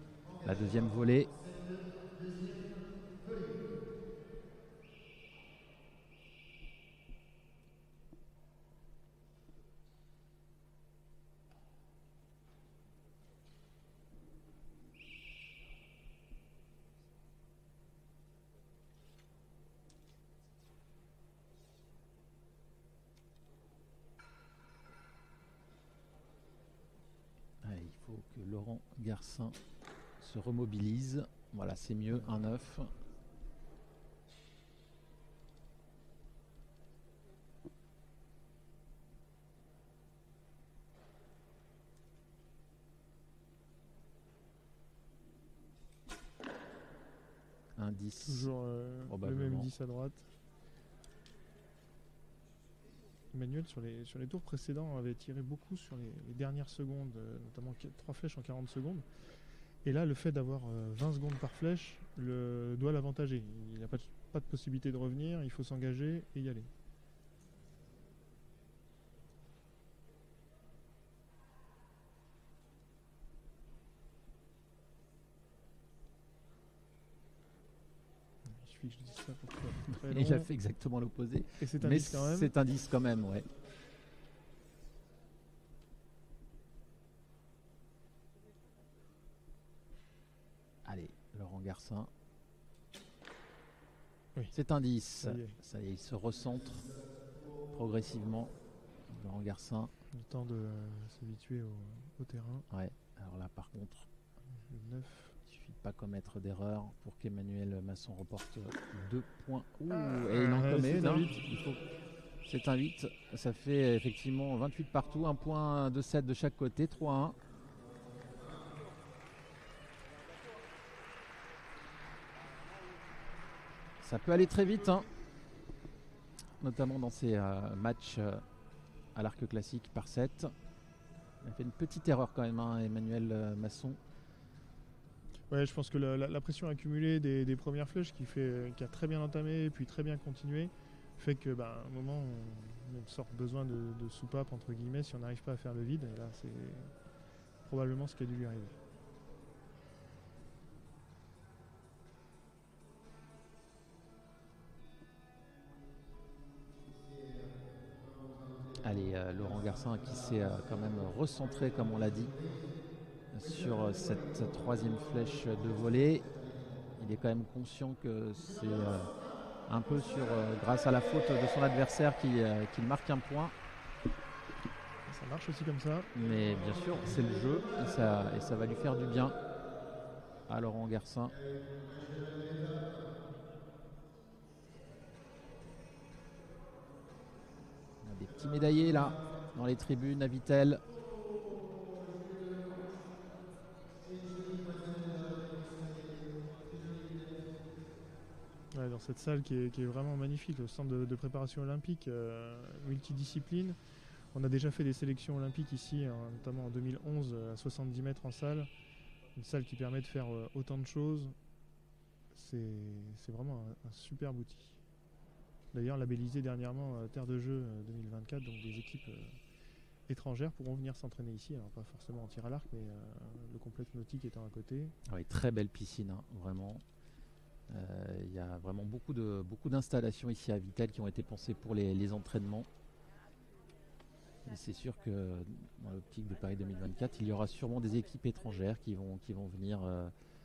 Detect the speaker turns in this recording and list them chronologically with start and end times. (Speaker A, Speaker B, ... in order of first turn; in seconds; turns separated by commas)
Speaker A: 0.4-1.3, Speaker A: 27.6-29.6, Speaker A: 30.2-32.9, Speaker A: 47.8-48.5, Speaker B: 48.2-50.3, Speaker A: 49.0-49.7, Speaker B: 53.3-59.0, Speaker B: 59.8-66.7, Speaker B: 78.5-80.5, Speaker A: 80.1-83.5, Speaker B: 81.6-82.5, Speaker A: 90.8-92.1, Speaker A: 94.5-96.9, Speaker B: 95.2-95.6, Speaker A: 97.7-98.5, Speaker A: 99.1-99.9, Speaker B: 100.1-102.7, Speaker A: 102.7-104.1, Speaker B: 104.6-105.4, Speaker A: 105.5-111.8, Speaker B: 109.9-111.4, Speaker A: 112.4-117.4, Speaker A: 124.0-125.1, Speaker A: 126.6-128.4, Speaker A: 129.1-130.5, Speaker A: 131.4-134.0, Speaker B: 135.5-146.9, Speaker B: 147.6-148.8, Speaker A: 158.8-162.3, Speaker A: 163.3-166.3, Speaker A: 167.0-169.1, Speaker A: 169.7-173.5, Speaker B: 175.1-176.1, Speaker A: 176.1-179.4, Speaker A: 180.5-181.4, Speaker A: 188.0-190.8, Speaker B: 198.7-203.8, Speaker B: 204.3-208.7, Speaker B: 209.3-211.3, Speaker B: 212.3-214.8, Speaker B: 215.7-219.3, Speaker B: 220.1-224.9, Speaker A: 225.1-226.8, Speaker A: 227.7-232.7, Speaker A: 234.4-240.1